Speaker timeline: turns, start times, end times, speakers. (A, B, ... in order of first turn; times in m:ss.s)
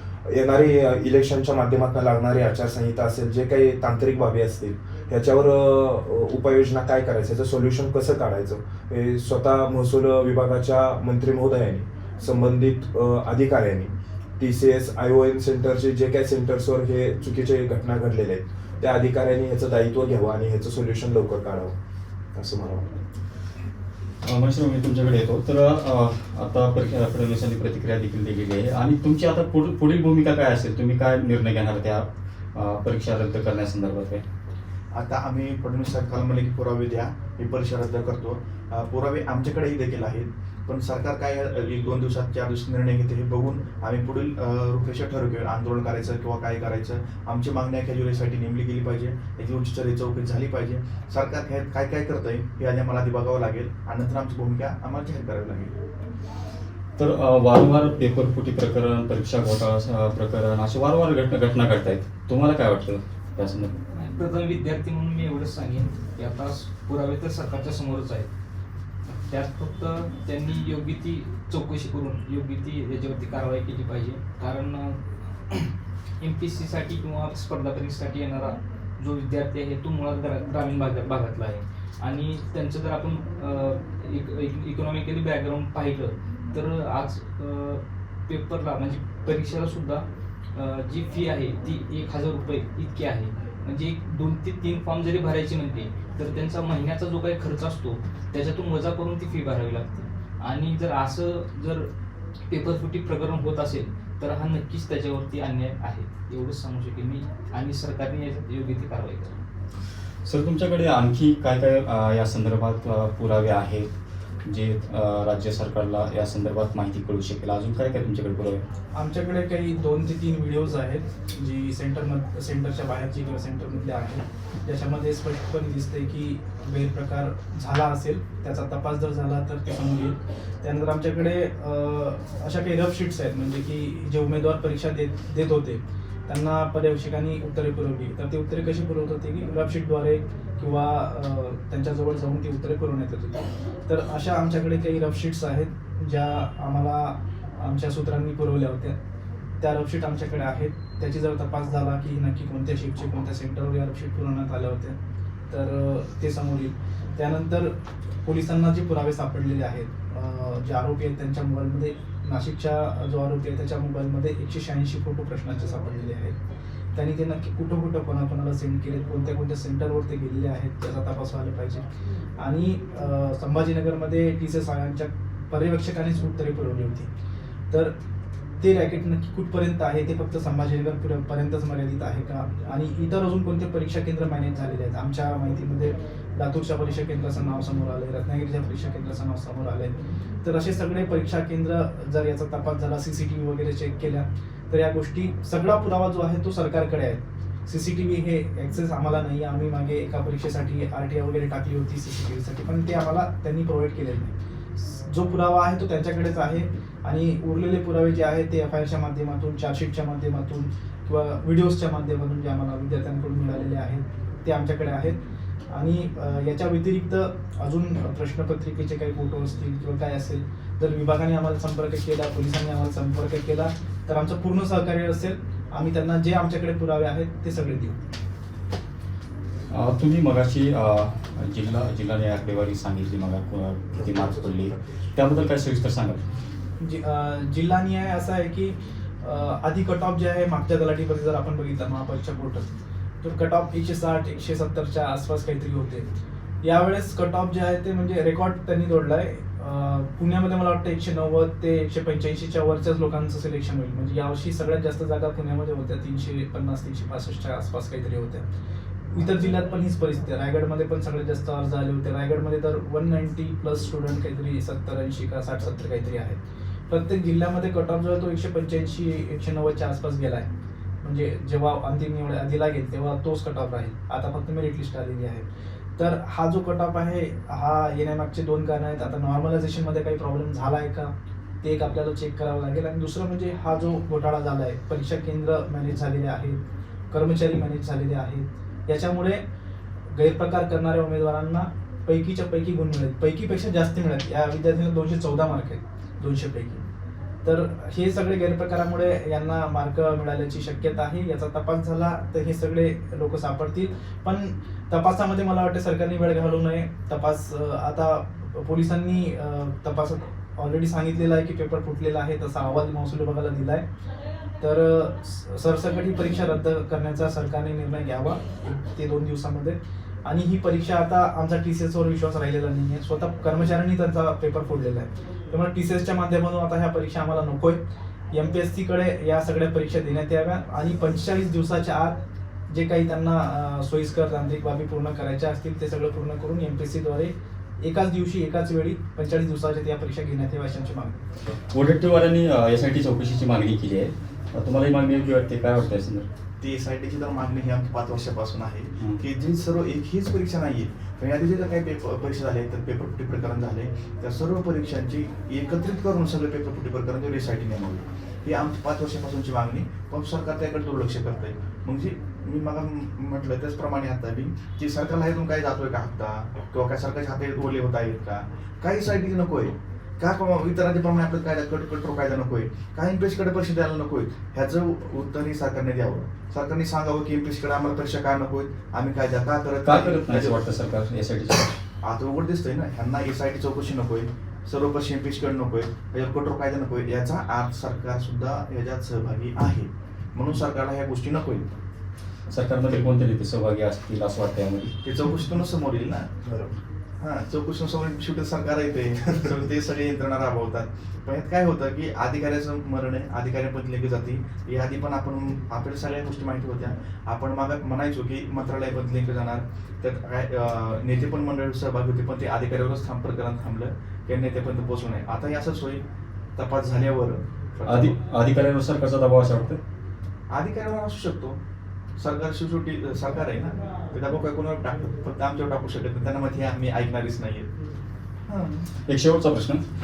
0:00.2-0:21.8 A
0:22.3-0:23.0 A
0:24.2-0:34.2 B
0:35.0-0:55.7 C
0:57.0-1:03.8 B
1:03.9-1:08.3 D
1:09.1-1:15.0 D
1:15.5-1:30.0 D
1:30.6-1:41.9 D
1:42.5-1:49.4 D
1:50.3-1:53.9 B
1:54.4-1:58.6 B
1:58.9-2:29.0 E
2:29.6-2:35.0 E
2:35.5-2:46.4 E
2:47.0-2:51.9 E
2:52.4-2:57.1 E
2:57.7-2:58.0 E
2:58.6-3:35.2 E
3:35.7-3:48.0 E
3:49.7-3:56.2 B
3:54.0-3:54.7 A
3:56.8-4:02.7 E
4:03.2-4:06.1 E
4:06.6-4:18.5 E
4:19.1-4:30.5 E
4:31.0-4:35.5 E
4:36.0-4:49.4 E
4:50.1-4:56.8 E
4:57.4-5:13.8 E
5:14.6-5:27.8 E
5:28.3-5:41.2 E
5:41.7-5:46.3 B
5:46.6-6:20.6 C
6:19.8-6:21.7 B
6:22.0-6:31.7 C
6:32.5-6:35.0 B
6:35.0-6:36.4 C
6:36.4-6:36.7 A
6:37.2-6:56.0 C
6:56.6-6:58.2 C
6:57.9-6:59.8 B
7:00.5-7:01.6 C
7:02.2-7:07.7 C
7:08.5-7:08.9 C
7:09.1-7:09.8 B